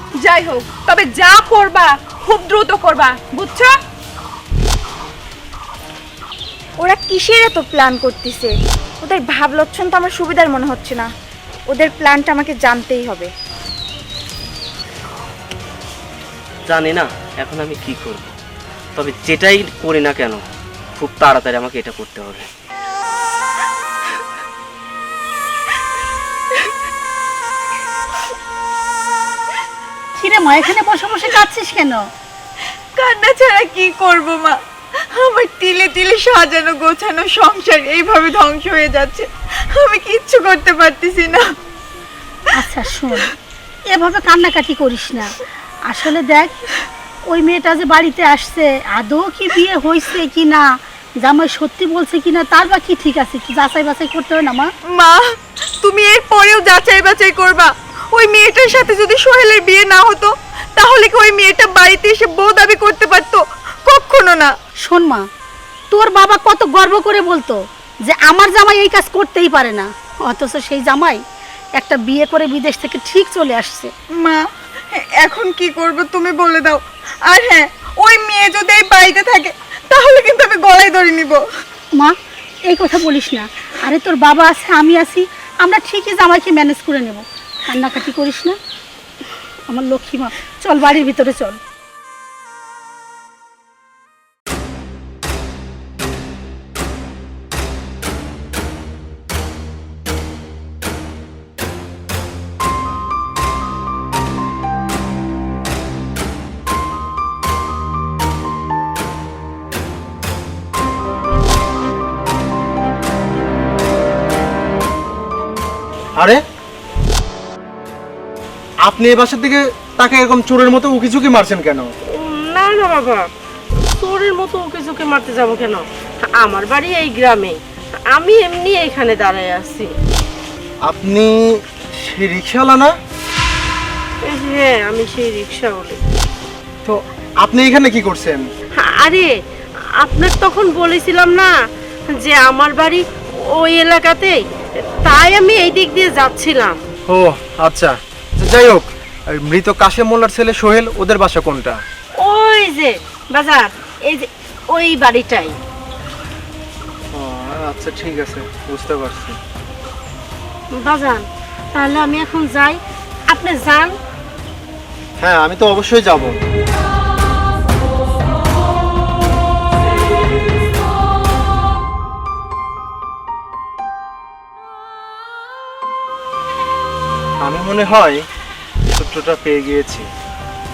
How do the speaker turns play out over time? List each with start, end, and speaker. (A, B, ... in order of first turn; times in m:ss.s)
0:00.2-0:03.7 A
0:06.8-0:11.1 B
0:11.7-0:13.3 B
0:16.7-0:18.3 C
0:19.0-0:20.4 C
0:21.0-0:22.5 C
0:30.2-0:32.0 D
0:33.0-0:41.6 B
0:42.6-0:43.3 D
0:43.9-0:45.3 D
0:45.9-0:46.6 D
0:47.3-0:50.7 D
0:51.2-0:54.7 D
0:54.9-1:04.5 B
1:04.8-1:05.2 D
1:05.9-1:11.2 D
1:11.8-1:13.9 D
1:14.2-1:21.4 B
1:22.7-1:28.6 D
1:29.7-1:31.6 D
1:58.8-2:01.9 E
2:02.1-2:03.2 F
2:03.9-2:05.8 F
2:06.4-2:07.6 F
2:08.1-2:09.9 F
2:10.8-2:11.4 E
2:12.0-2:12.9 E
2:14.2-2:16.0 F
2:16.8-2:18.4 E
2:18.8-2:19.3 F
2:20.0-2:21.5 F
2:22.2-2:24.4 F
2:25.0-2:26.8 F
2:27.1-2:31.8 E
2:32.2-2:35.5 F
2:37.1-2:39.4 E
2:40.7-2:42.8 F
2:43.3-2:43.9 F
2:45.2-2:46.4 E
2:57.4-2:58.2 E
2:58.9-3:00.1 E